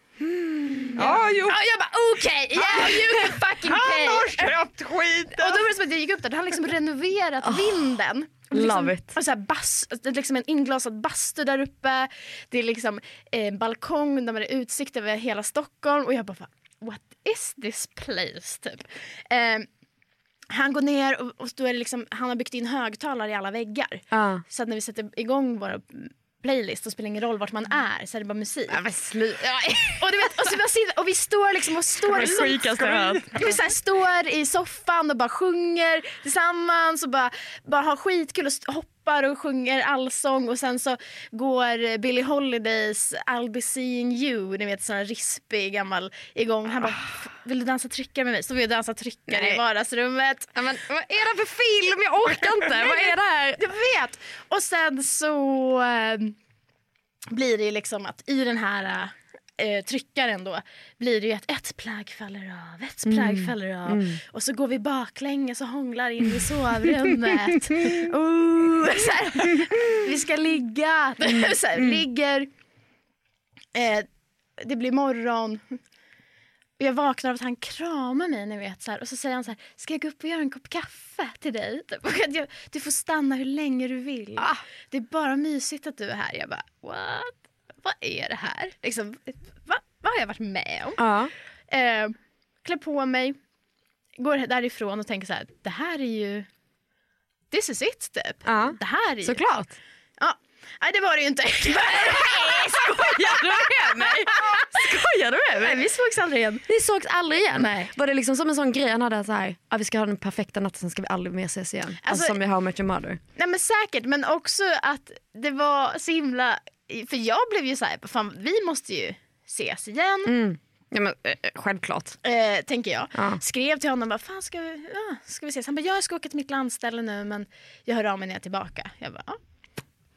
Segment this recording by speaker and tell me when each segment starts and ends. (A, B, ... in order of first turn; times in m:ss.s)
0:00.2-0:01.2 A
0:01.0-0:01.6 B
0:01.0-0:04.5 C
0:02.6-0:05.6 B
0:05.3-0:19.7 C
0:07.4-0:07.8 A
0:08.5-0:09.2 A
0:20.5-0:28.8 C
0:24.1-0:24.4 A
0:28.7-0:30.5 A
0:29.9-0:32.7 C
0:32.1-0:33.4 A
0:32.2-0:33.3 B
0:33.3-0:50.5 C
0:49.3-0:49.6 A
0:50.5-0:53.6 A
0:52.7-0:56.4 C
0:57.3-1:12.5 C
1:03.0-1:04.2 A
1:07.0-1:08.1 A
1:11.3-1:12.0 A
1:13.7-1:15.8 C
1:16.8-1:31.1 C
1:31.0-1:31.3 A
1:31.7-1:33.4 C
1:34.2-1:36.5 C
1:37.5-1:39.4 C
1:38.4-1:39.8 A
1:40.2-1:44.8 C
1:42.0-1:45.8 A
1:45.6-1:46.6 C
1:46.7-1:53.2 A
1:47.6-1:47.9 C
1:52.0-1:52.4 C
1:53.4-2:00.3 C
2:00.2-2:02.2 A
2:02.2-2:09.4 C
2:03.1-2:03.4 A